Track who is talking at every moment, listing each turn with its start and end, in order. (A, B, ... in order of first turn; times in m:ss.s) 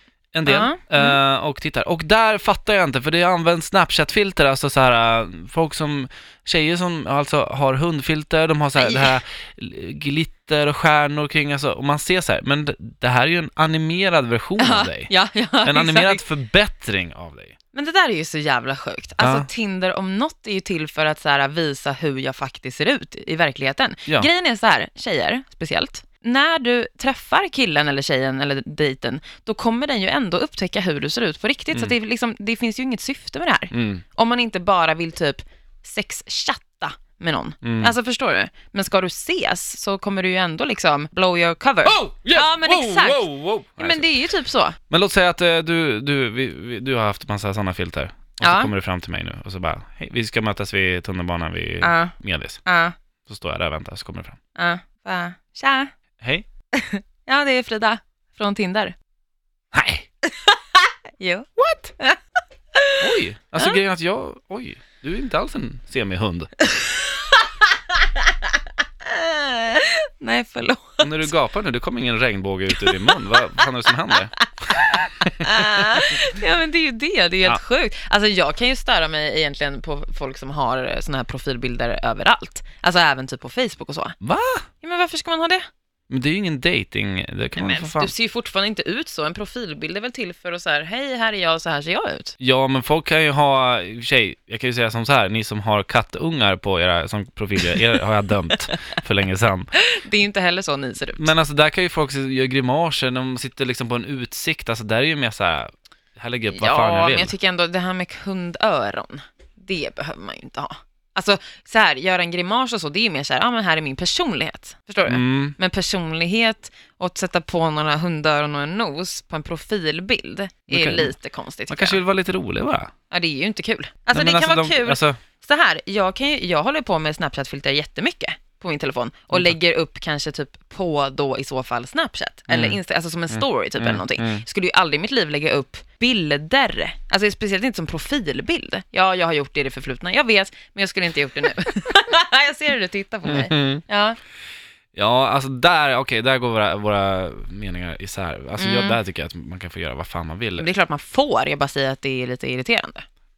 0:00.3-0:15.1 A
0:00.5-0:01.2 B
0:08.8-0:09.2 B
0:14.6-0:16.2 B
0:15.6-0:17.6 A
0:17.7-0:44.8 B
0:19.2-0:19.5 A
0:33.7-0:34.0 A
0:37.6-0:38.0 A
0:41.8-0:44.1 A
0:44.9-0:52.6 A
0:48.4-0:48.7 B
0:51.8-0:52.2 B
0:52.7-0:53.0 B
0:53.3-0:54.4 A
0:54.6-0:55.9 B
0:56.2-0:56.5 A
0:56.7-0:59.0 B
0:59.7-1:00.1 A
1:00.3-1:02.2 B
1:01.6-1:01.9 A
1:02.8-1:03.0 B
1:03.0-1:06.5 A
1:06.7-1:08.5 B
1:09.0-1:11.3 B
1:11.0-1:16.0 A
1:12.8-1:24.2 B
1:24.2-1:24.7 A
1:24.8-1:25.6 B
1:26.1-1:28.1 A
1:27.6-1:32.4 B
1:32.4-1:39.7 A
1:39.9-1:41.3 B
1:41.2-1:47.4 A
1:46.5-2:02.0 B
1:55.1-1:55.6 A
2:00.7-2:01.1 A
2:01.7-2:02.9 A
2:03.1-2:24.2 B
2:04.1-2:05.2 A
2:12.5-2:12.8 A
2:13.3-2:14.4 A
2:23.3-2:23.8 A
2:25.0-2:30.7 A
2:28.6-2:29.0 B
2:30.6-2:33.1 B